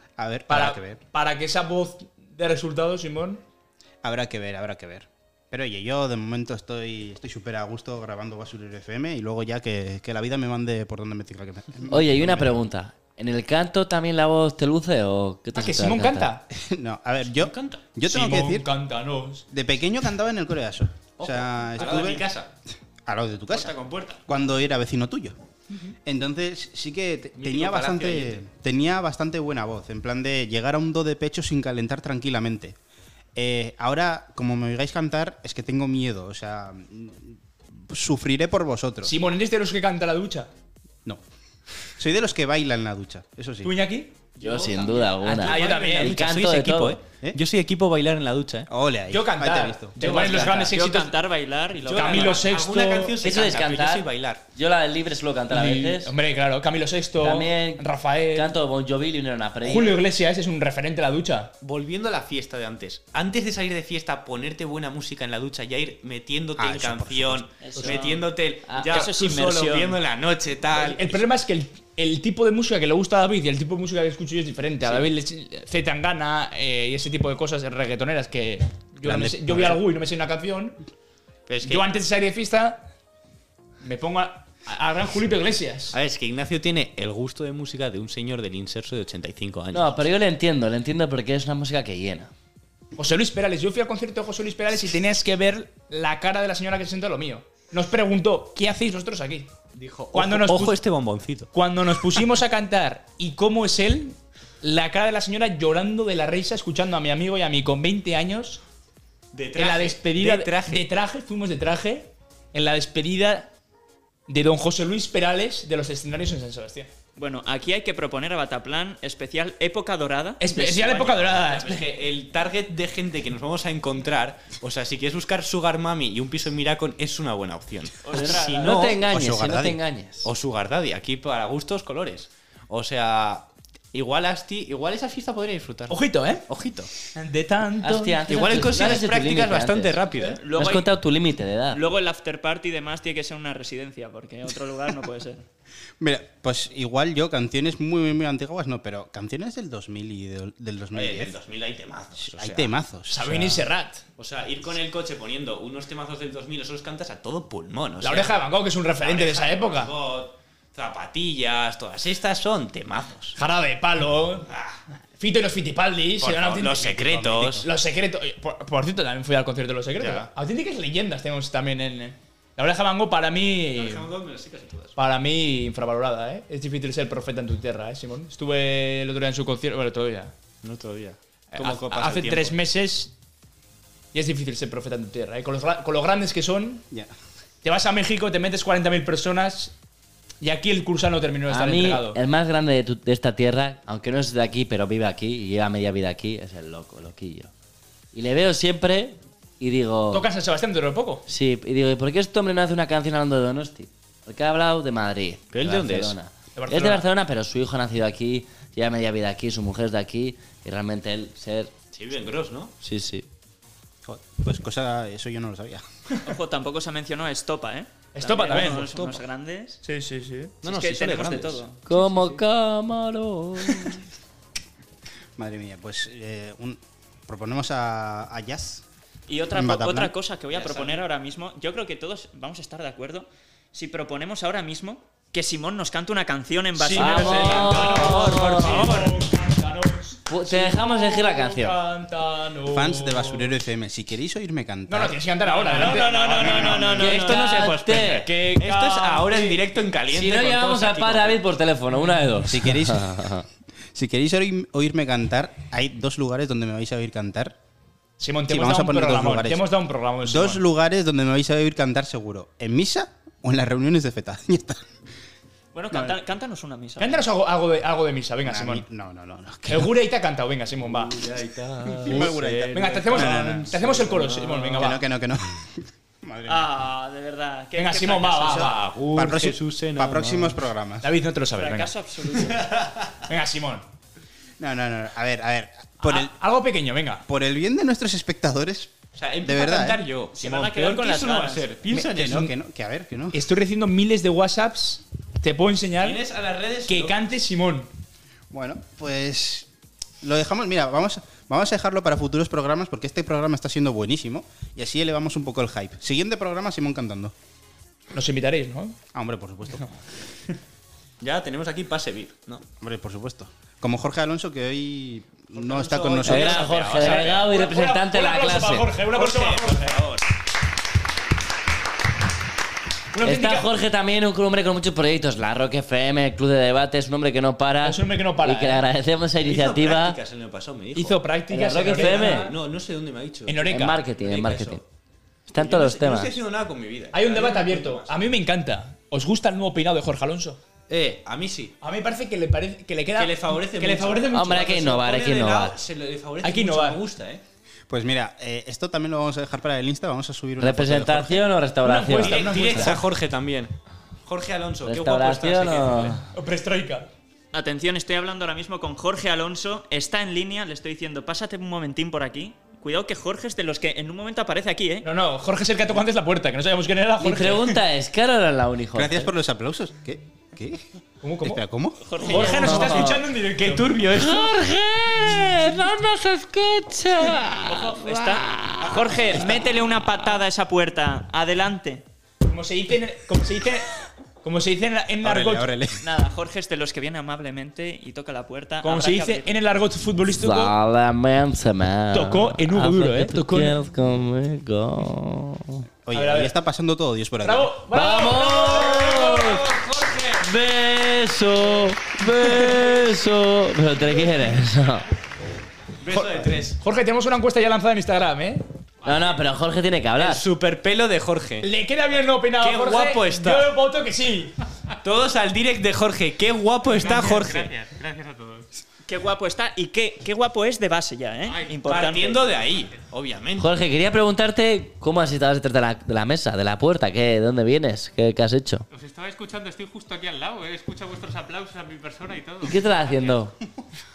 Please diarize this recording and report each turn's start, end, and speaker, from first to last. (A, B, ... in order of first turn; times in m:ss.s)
0:00.2-0:01.0 A
0:00.5-0:03.4 B
0:04.0-0:12.6 A
0:11.9-0:16.3 C
0:15.6-0:16.4 B
0:16.5-0:18.7 A
0:17.3-0:17.9 D
0:18.1-0:19.5 B
0:19.5-0:22.3 A
0:21.2-0:22.5 D
0:23.1-0:23.8 A
0:23.5-0:24.2 D
0:24.3-0:25.4 A
0:26.0-0:32.8 A
0:27.4-0:28.4 D
0:33.4-0:39.1 A
0:39.0-0:40.5 B
0:42.0-0:43.7 A
0:43.6-0:44.2 B
0:44.4-0:48.7 D
0:44.4-0:47.0 C
0:45.3-0:46.3 B
0:48.7-0:50.0 A
0:49.1-0:51.1 B
0:50.0-0:52.4 E
0:50.0-0:50.6 D
0:51.9-0:54.4 D
0:51.9-0:53.2 B
0:53.2-0:56.1 C
0:55.5-0:58.6 B
0:57.2-1:00.0 C
0:59.6-1:01.5 B
1:01.6-1:11.2 D
1:06.6-1:07.5 A
1:07.6-1:08.2 E
1:08.7-1:09.0 C
1:08.8-1:10.0 E
1:10.8-1:20.8 B
1:19.0-1:19.8 A
1:21.5-1:21.9 D
1:21.6-1:22.8 B
1:23.8-1:26.0 B
1:25.9-1:30.0 D
1:29.7-1:32.3 C
1:33.0-1:39.5 B
1:39.7-1:41.5 D
1:40.1-1:40.8 B
1:41.5-1:48.6 B
1:49.3-1:50.9 D
1:49.6-1:53.5 B
1:54.3-1:56.9 B
1:57.2-2:01.0 E
2:00.4-2:01.9 B
2:00.8-2:09.0 D
2:08.0-2:08.9 E
2:08.1-2:10.3 C
2:09.0-2:09.8 A
2:10.2-2:16.9 D
2:15.9-2:16.4 B
2:17.1-2:18.3 B
2:17.8-2:21.8 C
2:18.3-2:20.4 D
2:20.4-2:20.9 E
2:21.7-2:25.4 E
2:26.0-2:31.3 A
2:30.9-2:32.7 D
2:32.2-2:33.6 A
2:33.1-2:34.0 B
2:34.2-2:38.4 D
2:38.0-2:39.9 B
2:39.0-2:43.4 D
2:43.4-2:44.5 B
2:44.5-2:44.8 D
2:45.2-2:54.1 B
2:46.2-2:47.7 D
2:50.0-2:50.3 D
2:53.7-2:55.0 D
2:55.0-3:00.3 B
3:00.6-3:02.6 D
3:01.5-3:03.1 B
3:04.1-3:06.8 B
3:07.6-3:09.7 B
3:10.4-3:12.2 B
3:11.5-3:17.5 C
3:18.1-3:20.3 C
3:20.1-3:21.2 B
3:21.3-3:31.7 C
3:25.5-3:26.2 D
3:26.6-3:27.1 B
3:31.9-3:32.7 D
3:32.8-3:33.3 C
3:34.0-3:35.8 A
3:36.2-3:39.8 E
3:38.1-3:38.9 B
3:38.5-3:39.2 D
3:39.8-3:40.6 B
3:40.6-3:42.4 D
3:40.6-3:41.8 E
3:41.9-3:44.0 C
3:45.4-3:48.8 A
3:49.3-3:59.2 E
3:49.5-3:50.1 A
3:50.5-3:51.0 D
3:56.8-4:03.5 B
3:57.0-3:58.9 C
4:00.3-4:01.8 C
4:02.7-4:05.2 A
4:04.9-4:07.0 B
4:05.6-4:07.6 E
4:05.9-4:11.4 D
4:07.0-4:08.3 C
4:08.4-4:09.6 B
4:10.1-4:13.5 C
4:12.5-4:13.3 A
4:13.9-4:17.6 A
4:18.2-4:20.6 B
4:18.5-4:19.6 A
4:20.2-4:24.8 A
4:25.7-4:27.2 E
4:27.0-4:28.8 B
4:28.4-4:29.9 A
4:29.7-4:31.2 B
4:30.8-4:34.9 D
4:32.0-4:33.8 A
4:32.1-4:35.0 B
4:34.7-4:36.7 A
4:36.5-4:38.8 E
4:37.8-4:38.9 B
4:38.5-4:40.6 D
4:39.1-4:41.1 A
4:41.0-4:41.9 B
4:41.6-4:42.7 E
4:42.4-4:43.2 D
4:43.3-4:43.8 B
4:44.6-4:46.3 A
4:46.0-4:47.2 B
4:47.3-4:50.0 A
4:49.2-4:52.5 D
4:50.3-4:51.7 E
4:51.9-4:52.5 B
4:52.0-4:53.4 A
4:53.3-4:56.2 B
4:56.0-4:57.2 D
4:56.9-4:57.9 B
4:58.5-4:59.7 A
5:00.2-5:07.3 A
5:08.1-5:09.0 B
5:09.1-5:09.9 A
5:11.2-5:12.6 D
5:12.8-5:16.7 A
5:15.6-5:17.5 D
5:16.2-5:18.9 C
5:16.8-5:20.0 B
5:19.1-5:20.2 D
5:23.1-5:23.7 B
5:23.2-5:30.2 C
5:27.8-5:28.8 B
5:29.4-5:31.2 D
5:30.9-5:32.6 B
5:31.5-5:32.5 C
5:31.9-5:34.8 D
5:33.5-5:34.0 B
5:33.6-5:34.8 C
5:35.5-5:36.4 C
5:35.6-5:38.1 D
5:37.1-5:40.6 B
5:40.9-5:41.8 D
5:41.8-5:44.8 B
5:43.2-5:47.4 D
5:44.3-5:45.8 C
5:46.4-5:47.0 B
5:47.9-5:51.5 A
5:50.6-5:53.0 C
5:51.8-5:53.0 B
5:52.1-5:56.2 D
5:54.8-5:56.2 C
5:56.3-5:57.1 B
5:57.5-6:05.1 E
6:05.0-6:07.8 B
6:07.2-6:09.3 C
6:09.0-6:10.8 A
6:11.2-6:11.6 B
6:11.4-6:12.0 A
6:12.0-6:12.9 E
6:12.2-6:13.9 B
6:12.3-6:13.2 C
6:12.4-6:14.7 D
6:14.1-6:19.2 C
6:17.7-6:22.0 E
6:22.5-6:23.9 B
6:24.4-6:25.8 B
6:25.2-6:26.0 A
6:26.0-6:29.5 E
6:28.8-6:30.8 B
6:30.4-6:35.8 C
6:32.1-6:33.8 B
6:36.1-6:37.7 A
6:36.1-6:36.5 B
6:37.4-6:39.1 B
6:37.9-6:39.6 C
6:38.4-6:40.4 D
6:40.4-6:45.1 C
6:46.0-6:46.8 D
6:46.1-6:48.6 B
6:49.0-6:50.4 C
6:49.1-6:49.4 F
6:50.2-6:51.7 D
6:51.6-6:54.5 B
6:52.6-6:53.7 D
6:55.0-6:57.7 D
6:56.9-6:58.7 F
6:59.1-7:02.5 E
7:01.4-7:01.8 F
7:01.8-7:03.7 D
7:03.6-7:08.9 C
7:08.9-7:13.4 F
7:12.6-7:13.6 C